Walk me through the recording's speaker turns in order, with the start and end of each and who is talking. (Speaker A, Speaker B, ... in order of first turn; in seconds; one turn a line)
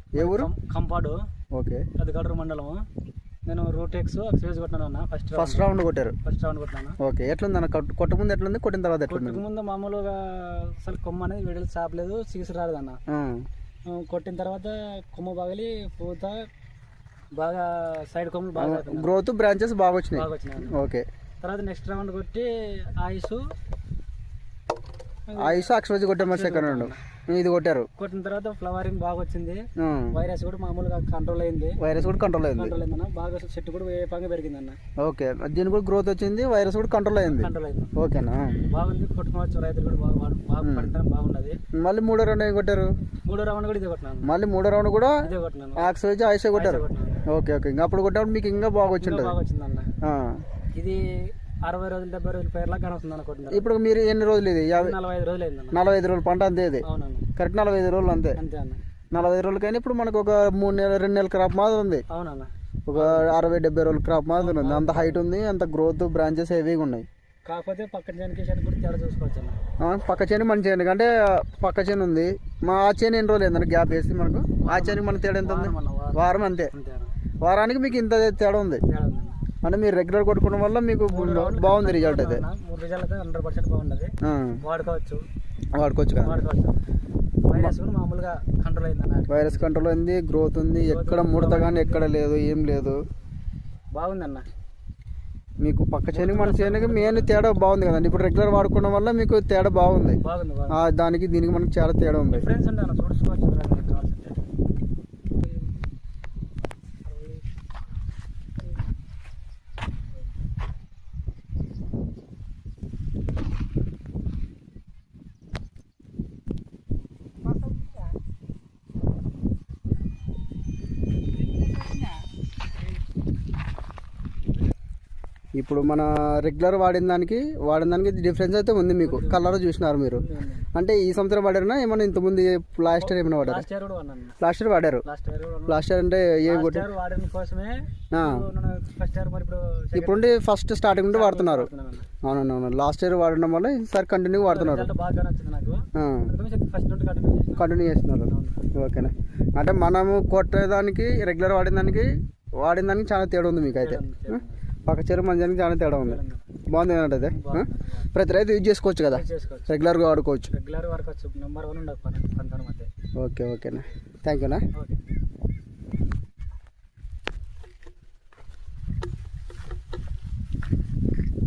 Speaker A: 0.1-1.2
Speaker B: 0.2-0.5
Speaker B: 1.5-1.9
Speaker A: 2.0-2.8
Speaker A: 3.5-5.7
Speaker B: 5.3-6.1
Speaker A: 6.2-7.0
Speaker B: 7.0-9.4
Speaker A: 9.1-13.0
Speaker B: 13.1-13.4
Speaker A: 13.9-16.4
Speaker A: 17.4-19.2
Speaker B: 18.6-21.0
Speaker A: 20.1-20.8
Speaker A: 21.4-23.4
Speaker A: 25.3-27.0
Speaker B: 25.4-27.9
Speaker A: 28.0-31.8
Speaker B: 29.8-30.1
Speaker B: 31.8-32.8
Speaker A: 32.6-34.8
Speaker B: 35.0-38.6
Speaker A: 37.3-38.0
Speaker A: 38.7-41.6
Speaker B: 40.6-40.9
Speaker B: 41.8-42.9
Speaker A: 43.2-44.3
Speaker B: 44.2-45.2
Speaker A: 45.2-45.9
Speaker B: 45.8-49.4
Speaker A: 46.5-47.3
Speaker A: 49.0-49.9
Speaker B: 50.0-50.4
Speaker A: 50.7-53.7
Speaker B: 53.5-55.0
Speaker A: 54.7-55.8
Speaker B: 55.7-56.8
Speaker A: 56.8-57.2
Speaker B: 57.4-58.4
Speaker A: 58.4-58.8
Speaker B: 59.1-62.0
Speaker A: 62.1-63.3
Speaker B: 62.9-67.1
Speaker A: 64.3-65.2
Speaker A: 67.5-69.6
Speaker B: 69.8-76.7
Speaker A: 74.6-76.2
Speaker A: 76.7-77.1
Speaker B: 77.4-78.8
Speaker A: 78.9-79.4
Speaker B: 79.6-82.4
Speaker A: 81.1-85.2
Speaker B: 84.2-84.6
Speaker B: 85.7-86.4
Speaker A: 86.2-86.8
Speaker A: 87.5-89.7
Speaker B: 89.3-93.0
Speaker A: 90.8-92.1
Speaker A: 94.0-94.5
Speaker B: 95.6-100.2
Speaker A: 96.1-97.5
Speaker A: 100.2-100.8
Speaker B: 100.7-102.5
Speaker A: 102.3-104.4
Speaker A: 107.0-107.4
Speaker B: 125.5-130.2
Speaker A: 129.0-129.4
Speaker A: 130.1-130.7
Speaker B: 130.7-133.7
Speaker A: 132.9-134.4
Speaker B: 134.4-135.0
Speaker A: 135.0-135.8
Speaker B: 135.7-136.8
Speaker A: 136.4-140.3
Speaker B: 138.1-138.4
Speaker B: 139.9-141.7
Speaker A: 141.1-142.1
Speaker B: 142.2-144.9
Speaker A: 144.5-147.7
Speaker B: 145.9-146.3
Speaker B: 147.6-152.1
Speaker A: 148.3-148.6
Speaker B: 152.6-160.5
Speaker A: 153.8-154.6
Speaker A: 156.0-156.5
Speaker A: 157.3-158.1
Speaker A: 159.1-159.7
Speaker A: 160.5-162.9
Speaker B: 163.2-164.6
Speaker A: 164.7-165.0